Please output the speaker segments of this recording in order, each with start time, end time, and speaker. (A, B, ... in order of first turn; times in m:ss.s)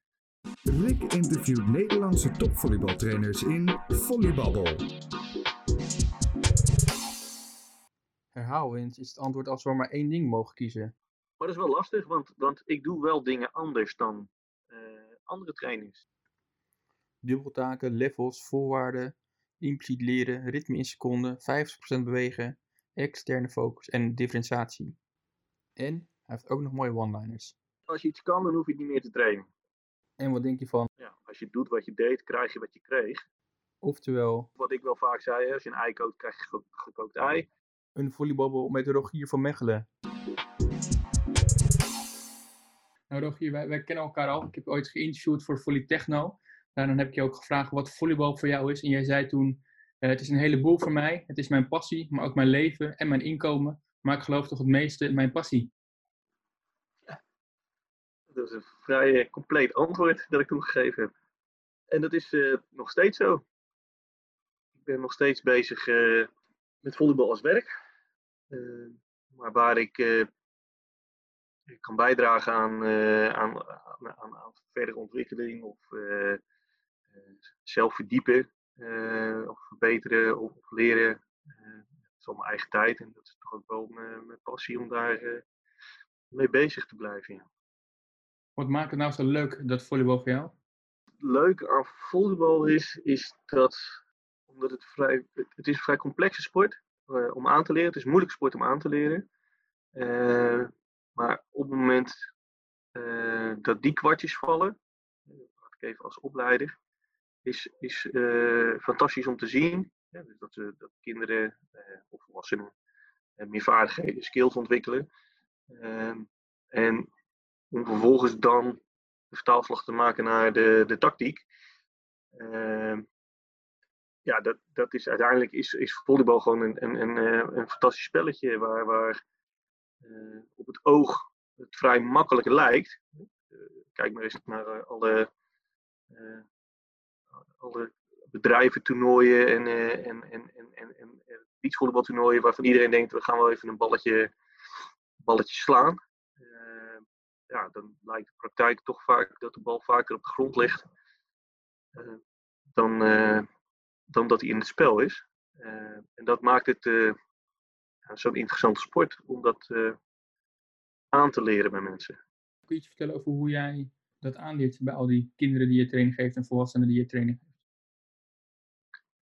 0:00.7-0:04.8 A
0:08.3-0:10.9 B
0:11.4-0:16.0 C
0:17.2-0:25.0 B
0:25.8-0:27.5 B
0:27.9-0:29.5 C
0:30.2-0:30.9 B
0:31.0-0:33.2 C
0:33.8-0:34.5 B
0:34.6-0:37.5 C
0:37.9-0:39.9 B
0:43.1-0:55.7 B
0:58.3-1:01.1 C
1:01.9-1:03.4 C
1:04.8-1:06.3 C
1:06.8-1:07.7 C
1:08.5-1:10.3 C
1:11.7-1:16.4 C
1:17.5-1:25.4 C
1:26.3-1:27.5 C
1:28.6-1:30.5 B
1:31.2-1:39.2 C
1:40.0-1:42.3 C
1:42.9-1:44.8 C
1:45.3-1:46.8 C
1:47.4-1:52.7 C
1:53.4-1:55.1 C
1:55.7-1:57.1 C
1:57.7-1:58.8 C
1:59.3-2:01.4 C
2:02.3-2:03.0 C
2:04.2-2:09.2 C
2:10.0-2:15.3 C
2:16.1-2:16.4 C
2:17.6-2:24.3 C
2:25.2-2:30.9 C
2:31.9-2:32.2 C
2:32.7-2:33.5 C
2:34.1-2:37.2 C
2:38.1-2:40.0 C
2:41.1-2:42.2 C
2:42.7-2:47.5 B